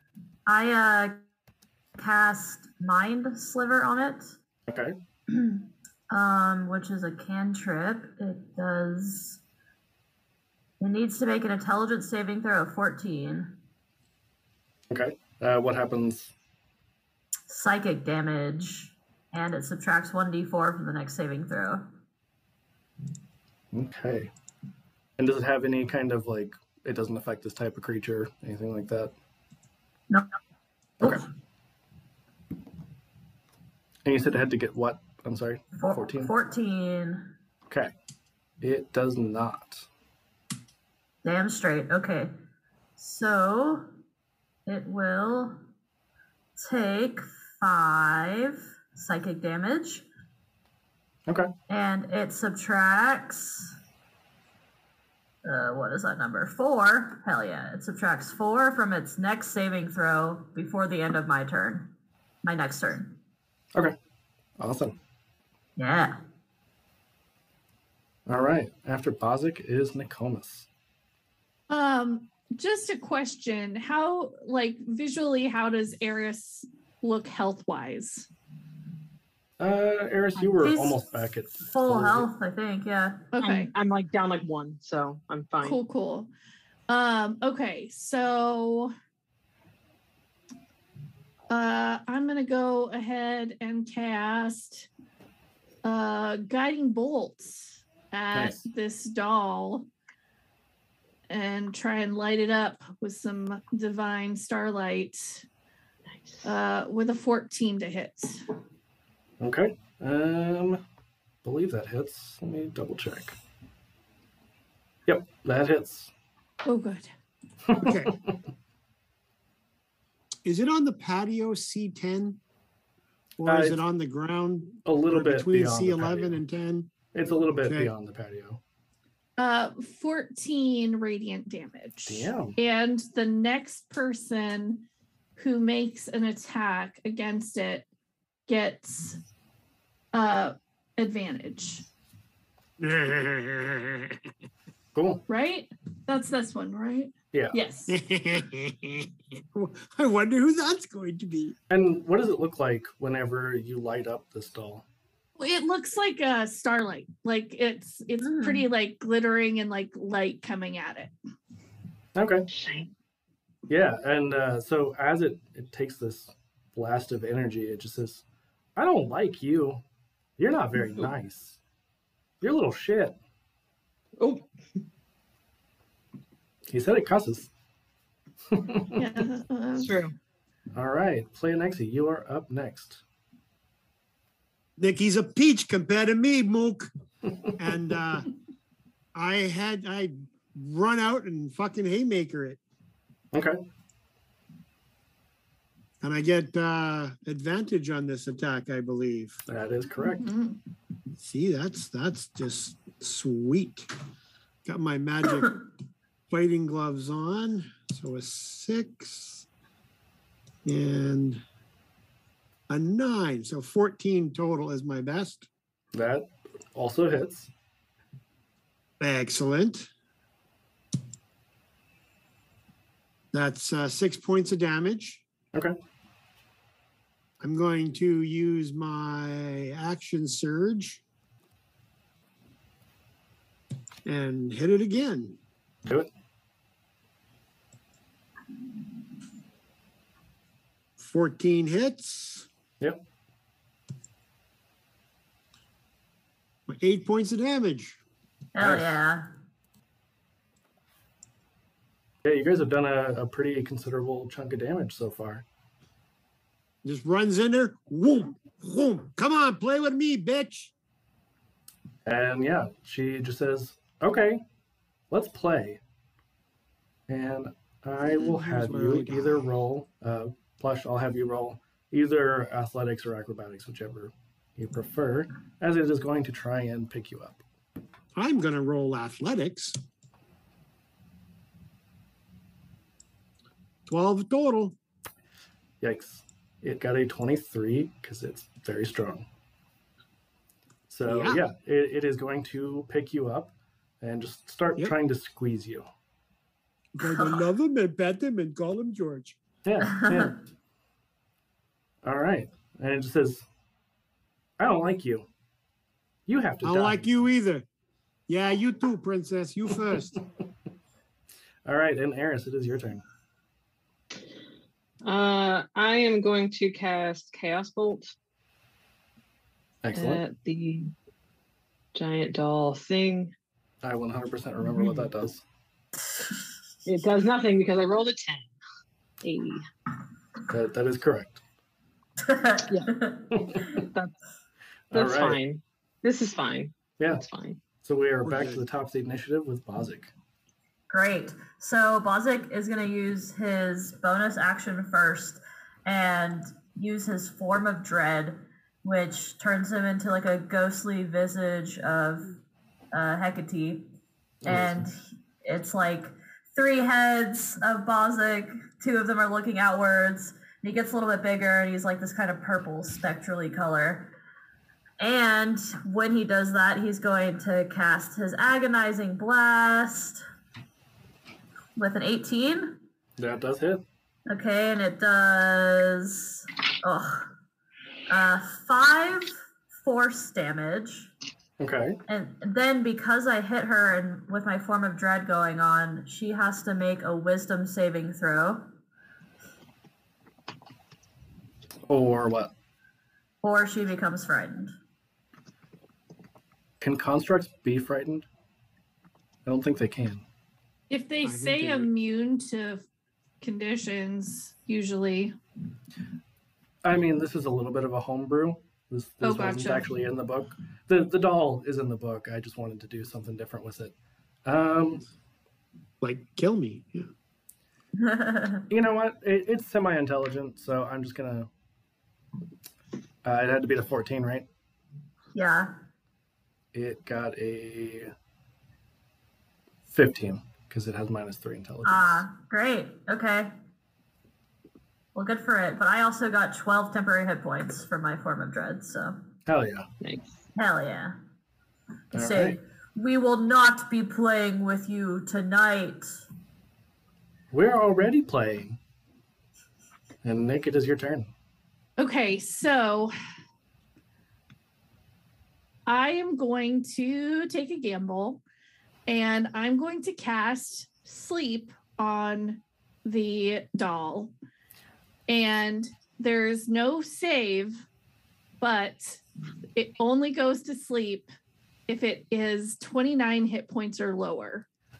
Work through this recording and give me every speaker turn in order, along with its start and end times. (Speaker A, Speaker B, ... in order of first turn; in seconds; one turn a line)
Speaker A: 0.5-1.2
Speaker A: 2.0-4.3
Speaker B: 4.7-5.0
Speaker A: 5.3-9.4
Speaker A: 10.8-13.6
Speaker B: 14.9-16.3
Speaker A: 17.5-21.9
Speaker B: 23.7-24.3
Speaker B: 25.2-29.1
Speaker A: 30.1-30.4
Speaker B: 34.0-36.3
Speaker A: 35.8-37.3
Speaker B: 38.6-39.9
Speaker A: 41.2-42.3
Speaker A: 43.0-43.9
Speaker A: 44.7-45.6
Speaker A: 46.6-50.1
Speaker B: 51.3-51.5
Speaker A: 51.7-53.7
Speaker A: 55.4-61.9
Speaker A: 62.4-63.2
Speaker B: 64.6-65.0
Speaker A: 65.8-66.2
Speaker B: 68.3-70.7
Speaker C: 71.7-78.3
Speaker B: 79.6-82.3
Speaker A: 80.6-81.0
Speaker A: 81.6-83.3
Speaker C: 83.3-83.7
Speaker D: 83.4-85.8
Speaker C: 85.6-86.3
Speaker C: 86.9-88.9
Speaker C: 91.5-94.9
Speaker C: 95.8-99.9
Speaker B: 98.3-98.6
Speaker C: 101.3-105.5
Speaker D: 106.2-106.5
Speaker C: 106.5-108.5
Speaker B: 109.4-110.8
Speaker B: 111.4-113.4
Speaker B: 115.1-116.1
Speaker C: 116.7-117.1
Speaker B: 117.7-118.3
Speaker E: 117.8-118.1
Speaker E: 120.5-122.4
Speaker E: 123.4-126.9
Speaker B: 123.5-123.8
Speaker B: 124.9-126.4
Speaker B: 127.1-128.6
Speaker E: 127.6-127.9
Speaker C: 129.4-134.8
Speaker B: 132.1-132.6
Speaker C: 135.4-137.9
Speaker C: 138.5-139.2
Speaker C: 140.1-141.8
Speaker E: 142.8-144.2
Speaker B: 144.9-145.2
Speaker C: 145.3-148.0
Speaker E: 147.9-151.6
Speaker B: 151.7-154.8
Speaker C: 155.4-161.1
Speaker A: 158.2-158.7
Speaker B: 162.2-162.5
Speaker D: 162.5-162.9
Speaker B: 163.7-168.2
Speaker B: 168.8-169.8
Speaker B: 170.4-171.6
Speaker B: 172.4-173.2
Speaker D: 174.2-174.4
Speaker B: 176.7-177.5
Speaker B: 178.5-179.0
Speaker C: 179.0-179.9
Speaker D: 179.8-180.1
Speaker B: 180.7-183.0
Speaker E: 184.8-186.9
Speaker E: 187.5-188.3
Speaker E: 189.1-192.6
Speaker B: 193.3-193.6
Speaker E: 196.0-199.4
Speaker B: 199.5-200.3
Speaker C: 200.1-200.6
Speaker E: 201.2-203.9
Speaker E: 204.7-205.7
Speaker E: 206.3-209.5
Speaker E: 210.6-211.4
Speaker E: 212.7-215.5
Speaker B: 215.9-217.5
Speaker E: 219.0-219.9
Speaker E: 223.3-225.2
Speaker E: 227.4-231.0
Speaker E: 234.1-235.4
Speaker E: 241.0-242.5
Speaker E: 246.7-248.0
Speaker A: 248.6-249.3
Speaker B: 248.6-248.9
Speaker B: 252.2-255.4
Speaker E: 256.8-260.7
Speaker B: 262.1-264.4
Speaker B: 265.1-265.8
Speaker B: 267.1-277.4
Speaker E: 268.1-269.5
Speaker E: 278.1-279.8
Speaker E: 283.9-284.8
Speaker B: 285.8-289.3
Speaker B: 290.9-295.9
Speaker E: 291.1-291.4
Speaker E: 296.9-299.4
Speaker B: 299.6-300.4
Speaker A: 299.8-300.3
Speaker B: 302.0-303.5
Speaker B: 304.6-305.3
Speaker B: 306.3-307.2
Speaker E: 306.6-307.7
Speaker E: 308.3-310.2
Speaker B: 311.6-313.0
Speaker D: 315.0-318.1
Speaker B: 319.8-320.2
Speaker D: 319.9-320.9
Speaker D: 321.9-323.3
Speaker B: 323.8-325.4
Speaker D: 324.6-325.1
Speaker D: 326.9-328.5
Speaker D: 329.2-329.6
Speaker B: 330.5-331.4
Speaker A: 332.2-333.5
Speaker D: 333.6-334.1
Speaker B: 334.9-335.4
Speaker D: 334.9-337.6
Speaker B: 337.8-340.1
Speaker E: 338.2-338.6
Speaker A: 340.9-352.4
Speaker A: 352.9-353.9
Speaker B: 354.4-354.9
Speaker A: 354.5-364.1
Speaker A: 365.0-370.2
Speaker A: 371.8-372.8
Speaker B: 373.2-373.8
Speaker A: 374.3-377.3
Speaker A: 378.1-381.1
Speaker B: 381.6-382.0
Speaker A: 382.1-388.7
Speaker B: 391.9-392.5
Speaker A: 393.4-394.7
Speaker B: 396.8-398.3
Speaker B: 399.5-400.2
Speaker C: 400.9-402.8
Speaker E: 401.2-401.9
Speaker C: 403.4-405.4
Speaker B: 406.8-413.9
Speaker C: 409.2-409.9
Speaker B: 414.5-415.1
Speaker E: 416.0-417.1
Speaker A: 418.0-418.6
Speaker B: 418.7-421.5
Speaker B: 423.2-424.5
Speaker A: 425.4-425.7
Speaker B: 426.7-428.1
Speaker B: 429.9-432.3
Speaker A: 431.9-433.5
Speaker A: 435.1-439.2
Speaker B: 439.5-439.9
Speaker D: 440.0-440.3
Speaker A: 440.6-441.1
Speaker B: 442.1-442.6
Speaker A: 442.1-446.1
Speaker B: 447.5-448.8
Speaker B: 450.2-451.3
Speaker C: 452.0-453.1
Speaker C: 455.9-458.4
Speaker C: 459.1-464.3
Speaker C: 465.3-467.8
Speaker C: 468.6-469.2
Speaker C: 469.8-471.3
Speaker C: 471.9-474.7